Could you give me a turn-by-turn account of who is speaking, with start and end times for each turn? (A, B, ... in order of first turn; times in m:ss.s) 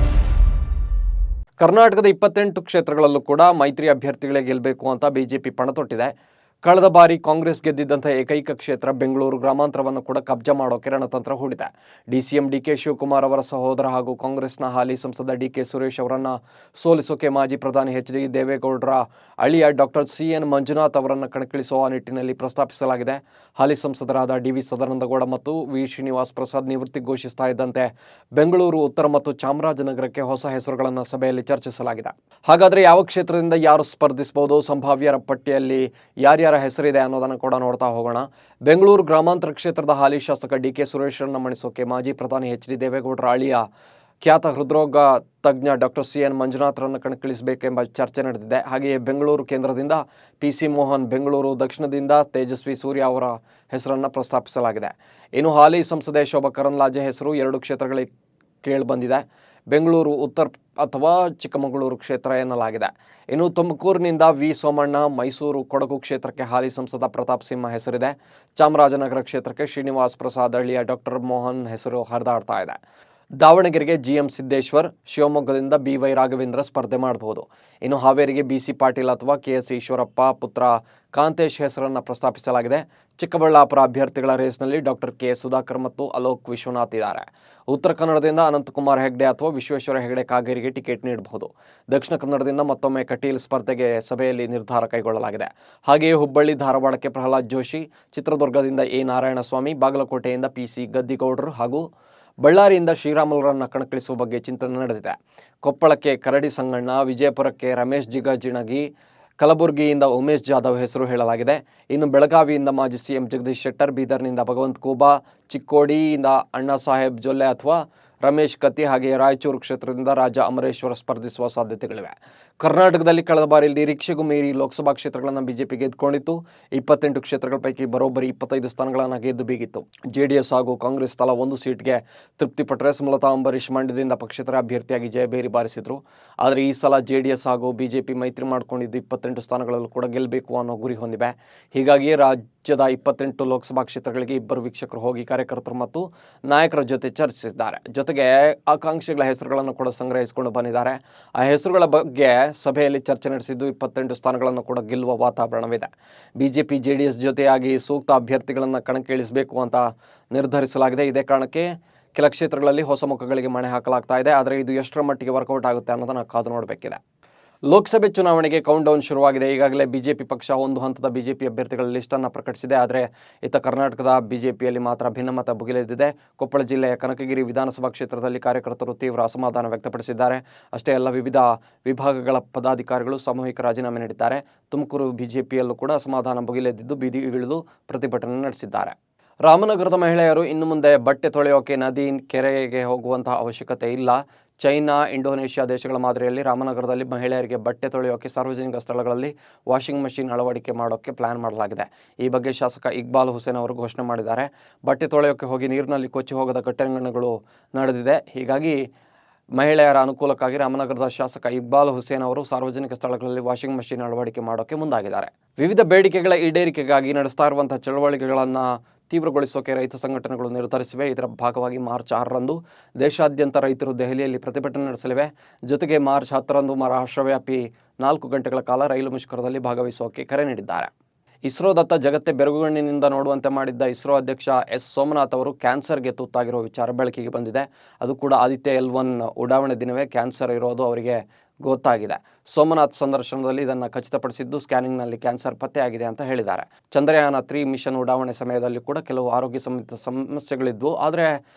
0:01.6-0:43.7 A
0:44.2-0:58.1 A
0:58.6-1:12.8 A
1:13.4-1:41.9 A
1:42.4-2:47.0 A
2:47.7-3:08.9 A
3:09.4-3:28.8 A
3:29.5-3:50.9 A
3:51.4-4:11.4 A